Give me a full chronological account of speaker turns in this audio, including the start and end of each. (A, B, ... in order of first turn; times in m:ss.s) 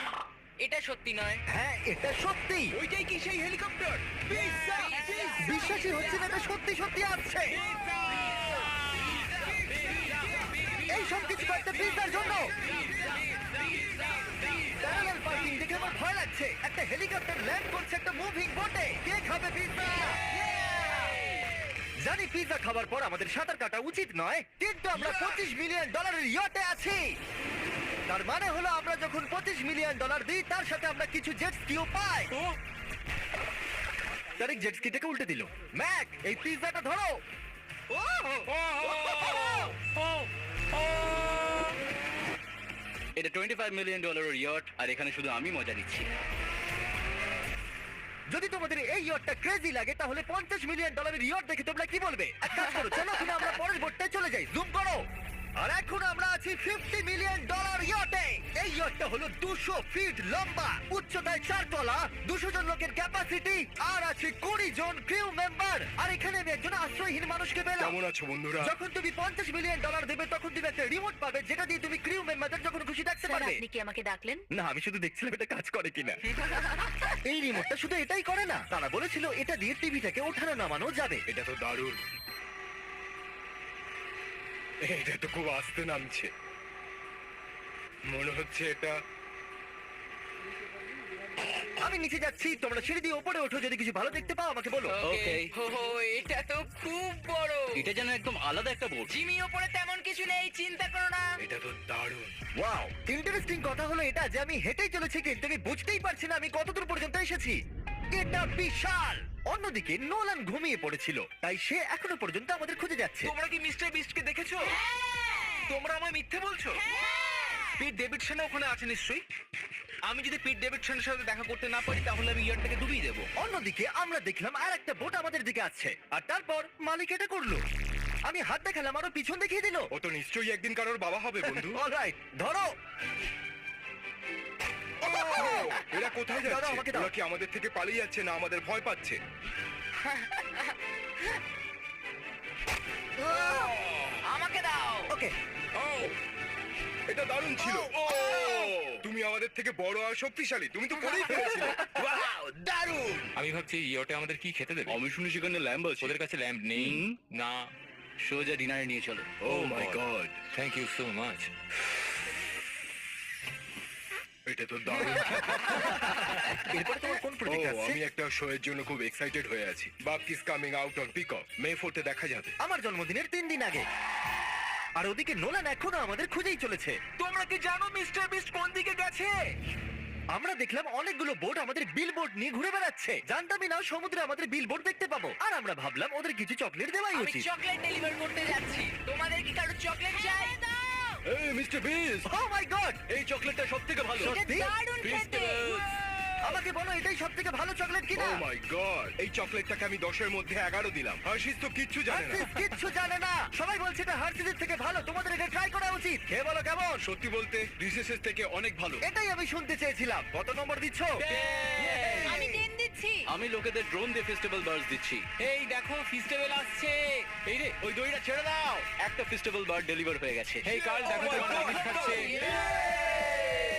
0:00.6-0:01.4 A
0:01.5-0:02.8 B
0:02.8-0:03.2 C
0:02.9-0:05.4 D
0:04.5-0:06.4 A
0:05.4-0:07.6 B
0:07.6-0:14.8 E
0:10.9-0:12.6 B
0:14.7-0:20.3 B
0:20.3-0:21.3 A
0:22.0-0:27.0 B
0:28.1-0:32.3 B
0:34.4-0:37.2 B
0:37.9-0:39.8 B
0:38.5-0:41.7 E
0:43.2-0:46.1 F
0:48.3-0:55.0 B
0:55.6-1:08.0 B
1:07.8-1:08.7 D
1:08.6-1:13.6 B
1:13.3-1:14.4 A
1:14.5-1:16.2 B
1:16.4-1:17.0 A
1:17.3-1:21.2 B
1:21.3-1:22.0 D
1:24.8-1:26.3 D
1:28.1-1:29.0 D
1:31.8-1:35.0 B
1:34.9-1:37.9 A
1:35.0-1:35.5 F
1:37.8-1:39.1 F
1:39.1-1:41.3 A
1:41.4-1:42.3 D
1:42.6-1:47.6 B
1:48.2-1:53.3 B
1:53.3-1:54.8 C
1:55.7-1:56.8 C
1:56.8-1:57.7 A
1:57.8-1:59.2 C
2:00.1-2:03.3 C
2:03.4-2:07.6 B
2:08.3-2:09.9 B
2:09.9-2:11.8 D
2:11.4-2:12.7 B
2:15.0-2:15.9 B
2:15.0-2:19.2 D
2:15.3-2:15.7 A
2:16.4-2:17.1 B
2:20.0-2:21.3 A
2:23.2-2:25.1 A
2:23.2-2:24.2 D
2:25.1-2:25.4 B
2:25.8-2:26.2 D
2:27.1-2:33.3 D
2:27.6-2:28.7 A
2:33.4-2:35.0 E
2:34.9-2:36.2 F
2:36.0-2:37.7 E
2:36.8-2:37.2 F
2:38.2-2:40.0 F
2:39.4-2:40.4 D
2:40.5-2:41.5 E
2:44.5-2:46.6 D
2:45.1-2:48.0 B
2:47.5-2:52.6 D
2:52.6-2:53.8 B
2:55.0-2:57.0 B
2:57.2-2:59.3 C
3:00.3-3:07.5 B
3:07.1-3:11.2 A
3:11.2-3:12.3 D
3:12.3-3:13.0 B
3:13.1-3:14.3 F
3:14.2-3:14.8 B
3:14.2-3:15.7 A
3:15.1-3:16.5 D
3:16.4-3:18.4 B
3:18.2-3:22.5 D
3:22.1-3:27.0 B
3:27.0-3:29.0 D
3:29.0-3:31.2 B
3:31.2-3:32.5 F
3:31.3-3:32.4 E
3:32.3-3:33.2 A
3:33.3-3:35.3 F
3:35.4-3:37.8 E
3:37.8-3:41.7 F
3:40.6-3:42.4 E
3:40.7-3:43.6 D
3:41.9-3:42.7 A